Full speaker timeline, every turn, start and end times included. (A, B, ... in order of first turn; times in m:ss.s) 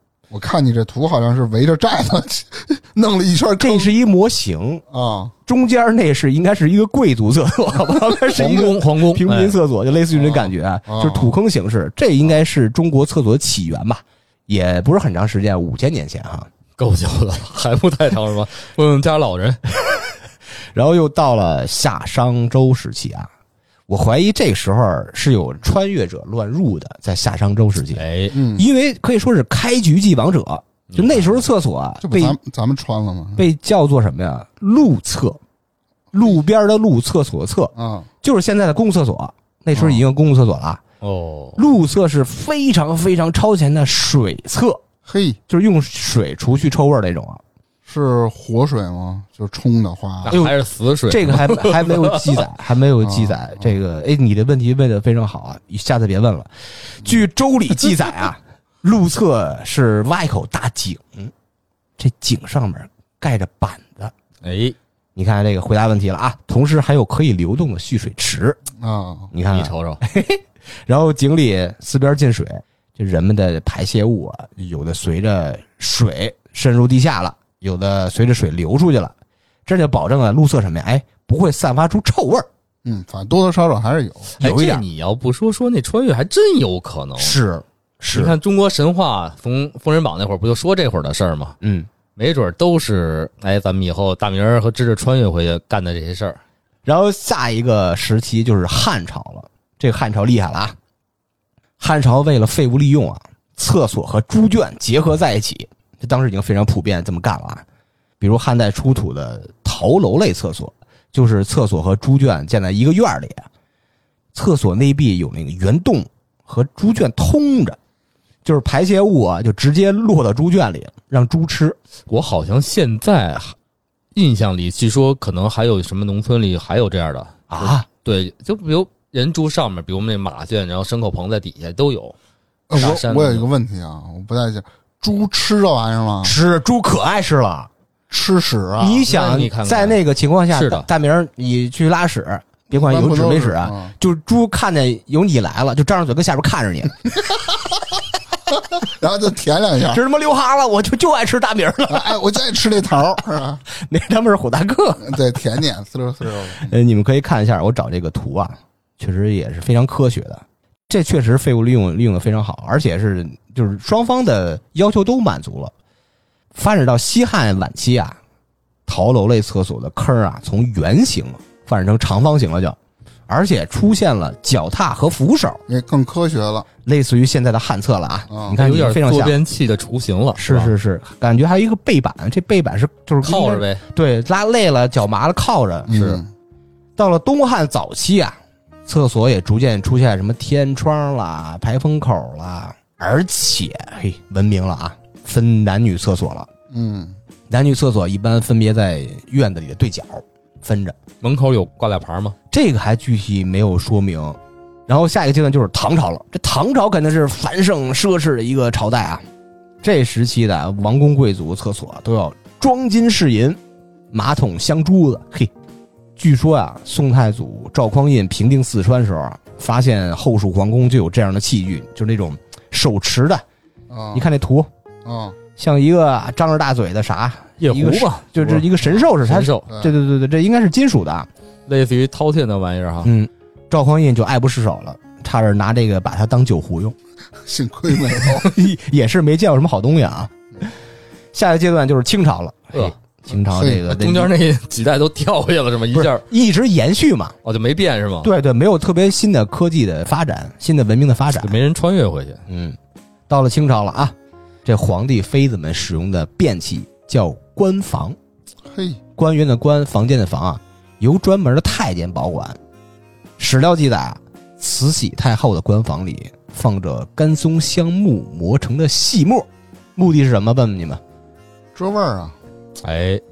0:00.3-0:03.9 A
0:03.6-0:04.8 B
0:04.9-0:05.3 A
0:05.5-0:16.5 B
0:08.3-0:09.6 C
0:10.2-0:11.4 A
0:16.8-0:19.6 C
0:20.7-0:23.3 B
0:23.9-0:32.4 B
0:28.0-0:28.4 C
0:28.3-0:28.7 A
0:30.9-0:31.4 C
0:32.0-0:33.4 A
0:33.4-0:35.4 B
0:36.1-0:37.7 B
0:37.8-0:38.1 A
0:38.2-0:40.8 B
0:39.8-0:40.0 A
0:41.0-0:41.6 C
0:41.6-0:44.8 B
0:45.1-0:45.4 A
0:45.5-0:47.4 B
0:47.9-0:50.4 A
0:50.2-0:52.4 C
0:50.3-0:50.6 B
0:51.1-1:01.3 B
0:53.0-0:53.6 A
1:02.0-1:04.1 B
1:04.4-1:04.8 C
1:05.2-1:08.6 B
1:08.8-1:09.3 A
1:09.3-1:19.1 B
1:09.5-1:10.0 C
1:19.7-1:22.5 B
1:22.8-1:24.3 A
1:24.4-1:24.8 B
1:24.4-1:27.4 C
1:27.2-1:28.3 B
1:28.1-1:31.6 C
1:31.6-1:31.9 B
1:32.2-1:36.4 C
1:36.8-1:40.8 B
1:41.8-1:47.6 B
1:48.2-1:53.5 B
1:54.3-1:57.8 B
1:58.4-2:01.8 B
2:02.1-2:03.6 C
2:04.2-2:12.2 C
2:07.5-2:07.9 B
2:12.7-2:16.4 A
2:12.7-2:13.5 C
2:16.2-2:17.7 B
2:18.1-2:19.0 A
2:18.8-2:27.1 B
2:19.1-2:20.0 C
2:20.5-2:20.9 C
2:22.7-2:23.9 A
2:28.8-2:30.0 A
2:29.8-2:32.2 B
2:31.9-2:33.6 A
2:33.7-2:35.3 B
2:35.0-2:36.7 A
2:36.6-2:45.7 B
2:46.5-2:48.2 B
2:48.9-2:52.8 B
2:53.3-2:55.6 B
2:55.7-2:56.7 A
2:56.8-2:59.4 B
2:58.3-2:58.6 A
2:58.6-3:00.7 C
3:00.4-3:06.2 B
3:03.2-3:03.8 C
3:05.9-3:06.3 A
3:07.0-3:16.5 B
3:16.7-3:17.2 A
3:17.5-3:21.0 B
3:21.2-3:22.4 C
3:22.5-3:29.2 B
3:29.8-3:33.6 B
3:34.1-3:35.5 B
3:36.2-3:43.4 B
3:43.9-3:44.2 A
3:44.1-3:44.7 B
3:45.0-3:45.4 A
3:45.6-3:51.3 B
3:47.6-3:48.3 C
3:49.2-3:49.7 C
3:49.7-3:49.9 A
3:51.7-3:53.1 C
3:53.0-3:57.0 B
3:57.5-3:58.5 A
3:58.1-4:00.3 B
4:01.3-4:04.3 B
4:03.5-4:03.9 A
4:03.9-4:06.2 C
4:05.9-4:07.4 B
4:07.4-4:08.3 C
4:08.2-4:11.5 B
4:11.4-4:12.4 C
4:12.5-4:12.8 B
4:13.3-4:18.2 B
4:18.7-4:19.0 A
4:19.2-4:22.6 B
4:23.4-4:31.0 B
4:31.8-4:32.4 A
4:32.8-4:33.2 C